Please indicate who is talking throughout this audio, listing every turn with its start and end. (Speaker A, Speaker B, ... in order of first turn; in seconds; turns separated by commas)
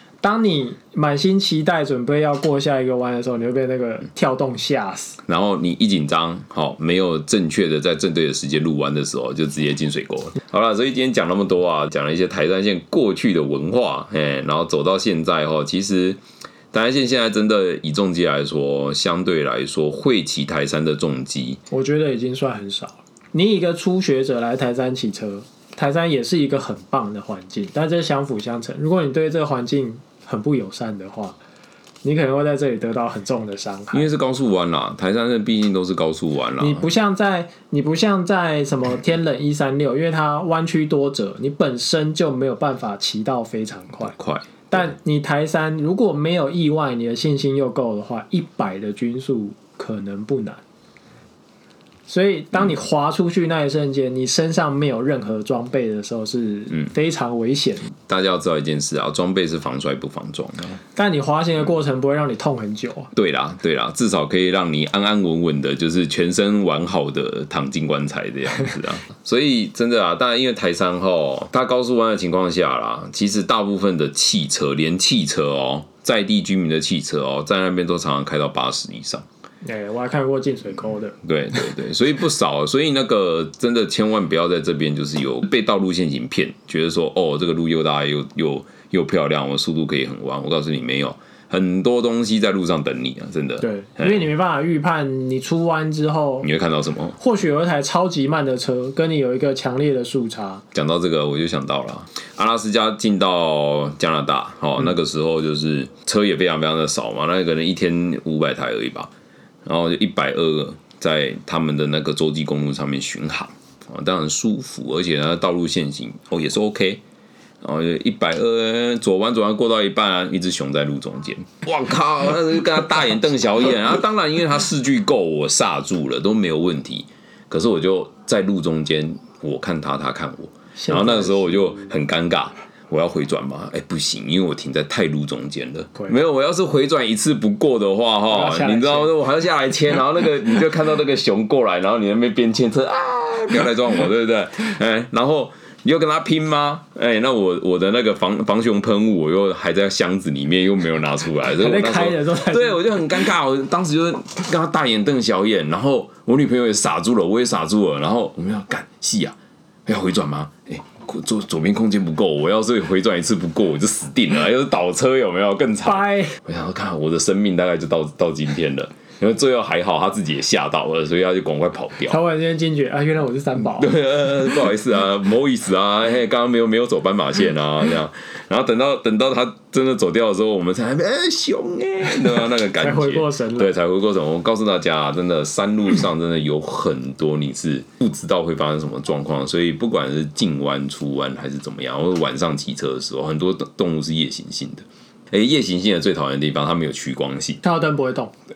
Speaker A: 0.2-5.2, Speaker B: 5.2-16.2, Speaker B: 16.7-21.6, Speaker A: 21.7-31.4, Speaker A: 32.0-34.1, Speaker B: 33.9-36.9, Speaker A: 36.6-44.1, Speaker B: 44.1-44.5, Speaker A: 44.7-50.6, Speaker A: 52.1-57.9, Speaker B: 58.1-60.8, Speaker A: 60.9-63.1, Speaker B: 63.1-79.2, Speaker A: 79.6-81.2, Speaker B: 81.2-94.2, Speaker A: 93.6-96.5, Speaker B: 96.4-97.2, Speaker A: 97.2-100.6, Speaker B: 100.7-109.1, Speaker B: 109.6-117.0, Speaker B: 117.6-172.2, Speaker A: 130.8-131.8, Speaker A: 138.3-139.1, Speaker A: 151.5-153.0, Speaker A: 165.8-166.4, Speaker A: 172.1-174.0, Speaker B: 173.6-197.6, Speaker A: 182.7-183.7, Speaker A: 197.6-198.3